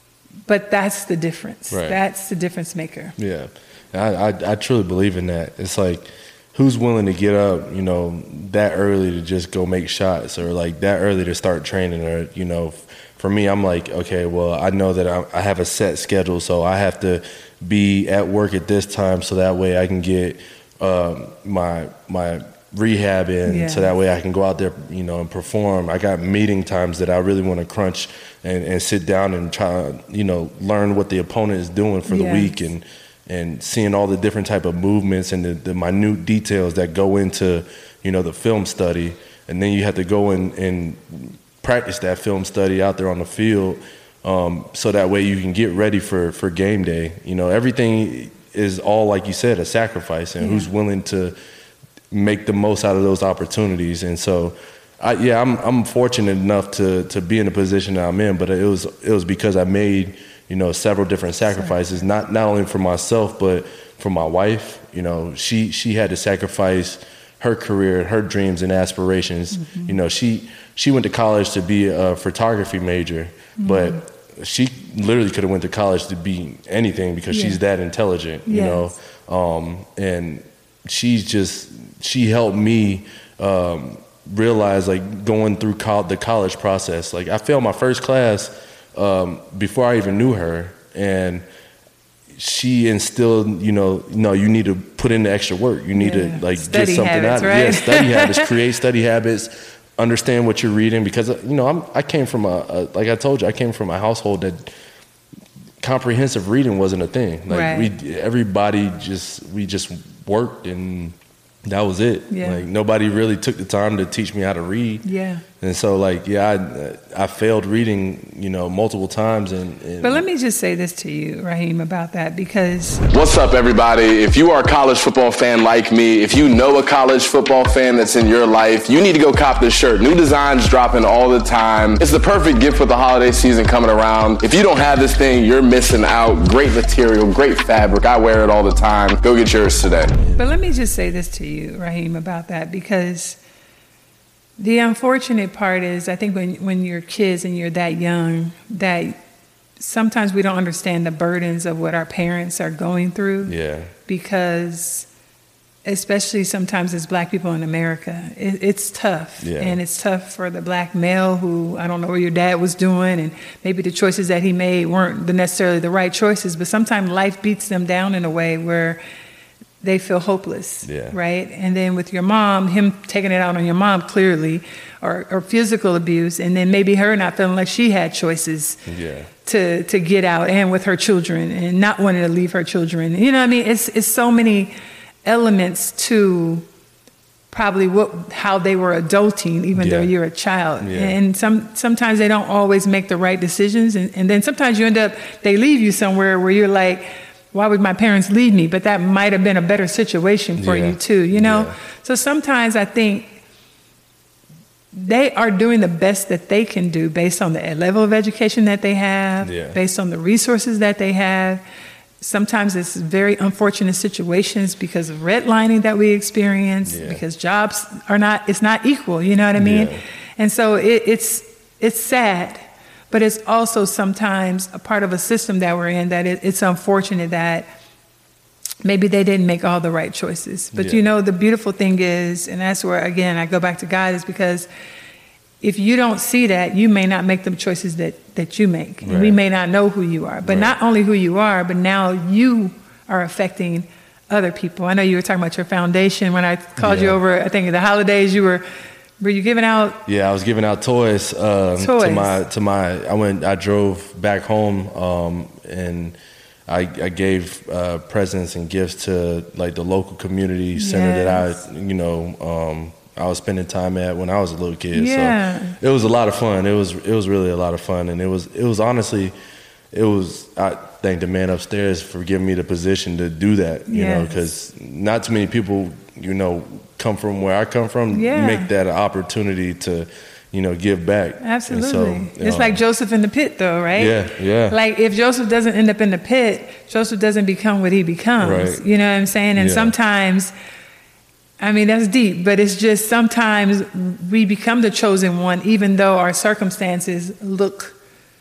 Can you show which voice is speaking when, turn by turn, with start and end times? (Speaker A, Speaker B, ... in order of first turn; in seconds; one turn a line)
Speaker A: 0.5-3.1
Speaker B: 1.7-2.0
Speaker B: 3.2-51.4
Speaker A: 23.5-23.9
Speaker A: 32.1-32.5
Speaker A: 50.4-50.7
Speaker B: 52.1-91.5
Speaker A: 69.5-70.0
Speaker A: 73.6-74.0
Speaker A: 77.3-77.6
Speaker A: 78.5-78.9
Speaker B: 92.3-104.7
Speaker A: 96.0-98.5
Speaker B: 105.8-111.2
Speaker A: 107.5-107.9
Speaker B: 111.7-115.0
Speaker A: 112.3-112.6
Speaker A: 115.0-115.5
Speaker B: 115.6-120.2
Speaker A: 120.0-123.0
Speaker C: 123.1-140.1
Speaker B: 140.1-140.5
Speaker A: 140.4-143.4
Speaker A: 144.6-149.2
Speaker A: 149.8-155.1
Speaker B: 153.5-153.9
Speaker A: 155.9-169.0
Speaker B: 159.4-159.8
Speaker A: 169.8-178.8
Speaker B: 170.8-171.2
Speaker B: 178.9-179.3
Speaker A: 179.4-184.7
Speaker A: 185.2-186.7
Speaker A: 187.5-203.4
Speaker B: 189.8-190.1
Speaker B: 190.8-191.2
Speaker B: 200.6-201.8
Speaker A: 204.9-211.6
Speaker B: 209.4-209.8
Speaker A: 212.2-227.7
Speaker B: 216.9-217.2
Speaker B: 219.6-220.0
Speaker A: 228.8-234.7
Speaker B: 230.8-231.0
Speaker A: 235.6-248.6
Speaker B: 239.0-239.4
Speaker B: 240.4-240.8
Speaker B: 246.8-247.2
Speaker A: 249.2-250.0
Speaker B: 250.1-269.3
Speaker A: 251.8-252.4
Speaker A: 260.8-261.6
Speaker A: 264.9-265.8
Speaker B: 269.9-282.8
Speaker A: 273.9-274.5
Speaker A: 278.1-278.7
Speaker A: 281.4-284.2
Speaker B: 284.0-284.8
Speaker A: 284.7-290.5
Speaker B: 288.4-288.8
Speaker B: 289.6-289.9
Speaker A: 291.6-298.0